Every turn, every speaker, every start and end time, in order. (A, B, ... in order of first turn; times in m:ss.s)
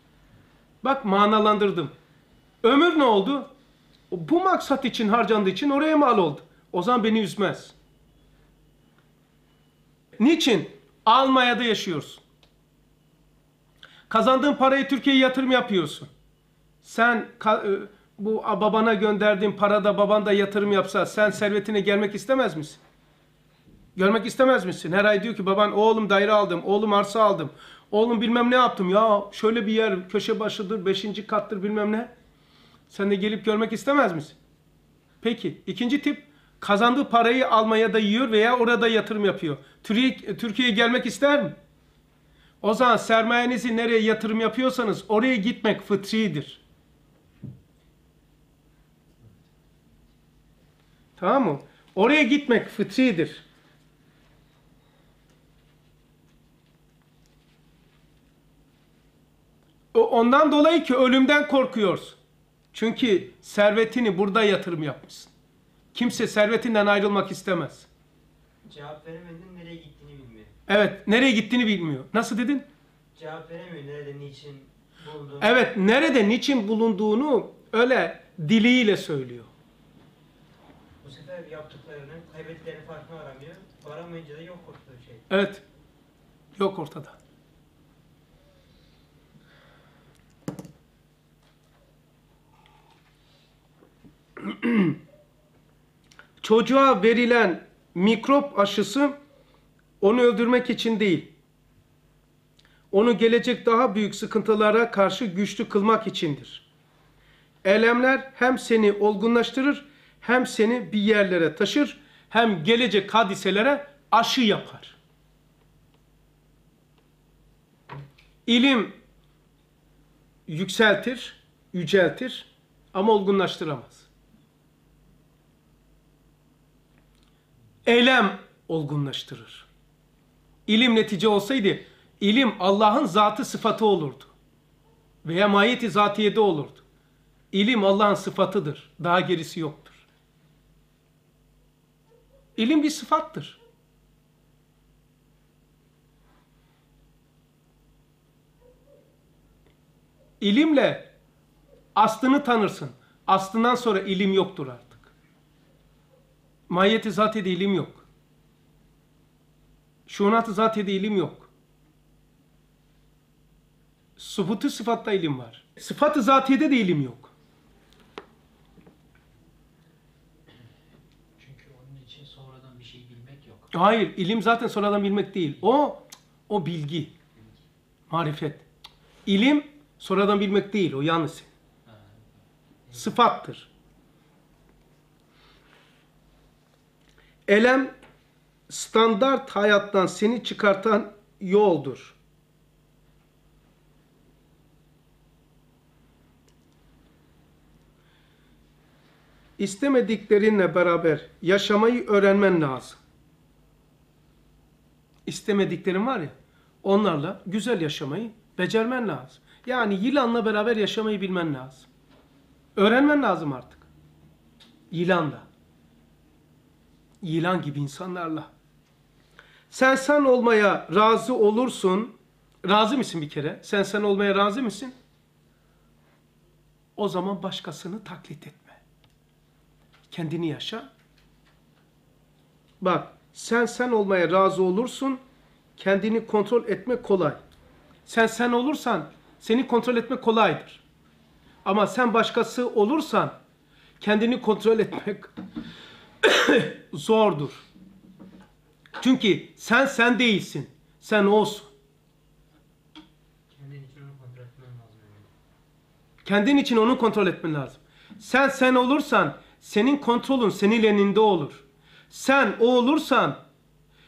0:00.8-0:01.9 A
0:02.6-0:03.5 A
0:04.1-0:07.7 A
0:10.2-0:12.2 A
0:14.1-0:16.1 A
0:16.8-0:22.8 A
0:24.0-0:32.1 A
0:32.9-0:34.4 A
0:35.2-0:41.6 A
0:42.6-0:46.6 A
0:51.2-0:53.4 A
0:59.9-1:02.2 A
1:02.7-1:05.3 A
1:05.9-1:07.9 A
1:08.6-1:10.6 B
1:10.7-1:12.7 A
1:13.1-1:15.7 B
1:15.4-1:19.5 A
1:21.0-1:25.2 B
1:25.3-1:25.6 A
1:26.6-1:27.2 A
1:34.4-1:35.0 A
1:36.4-1:39.2 A
1:40.0-1:41.3 A
1:42.9-1:46.6 A
1:47.6-1:55.0 A
1:58.4-1:59.0 A
2:00.5-2:04.1 A
2:07.8-2:09.7 A
2:10.7-2:14.3 A
2:15.2-2:16.8 A
2:17.5-2:20.0 A
2:22.6-2:23.6 A
2:30.4-2:31.1 A
2:31.9-2:35.1 A
2:36.7-2:38.0 A
2:40.1-2:41.5 A
2:44.2-2:47.3 A
2:51.4-2:53.7 C
2:53.7-2:57.1 A
2:58.1-2:58.6 A
2:59.2-3:01.5 A
3:01.8-3:02.2 C
3:02.9-3:03.7 A
3:07.5-3:07.9 A
3:08.7-3:12.2 A
3:19.6-3:23.0 A
3:25.2-3:31.9 A
3:32.8-3:33.9 A
3:34.9-3:35.5 A
3:37.2-3:38.5 A
3:39.7-3:44.9 A
3:47.0-3:48.8 A
3:50.1-3:50.9 A
3:52.8-3:55.2 A
3:55.8-3:57.4 A
3:58.0-4:00.8 A
4:01.6-4:03.4 A
4:04.0-4:05.3 A
4:06.2-4:07.6 A
4:09.0-4:11.7 A
4:13.5-4:15.3 B
4:16.2-4:23.4 A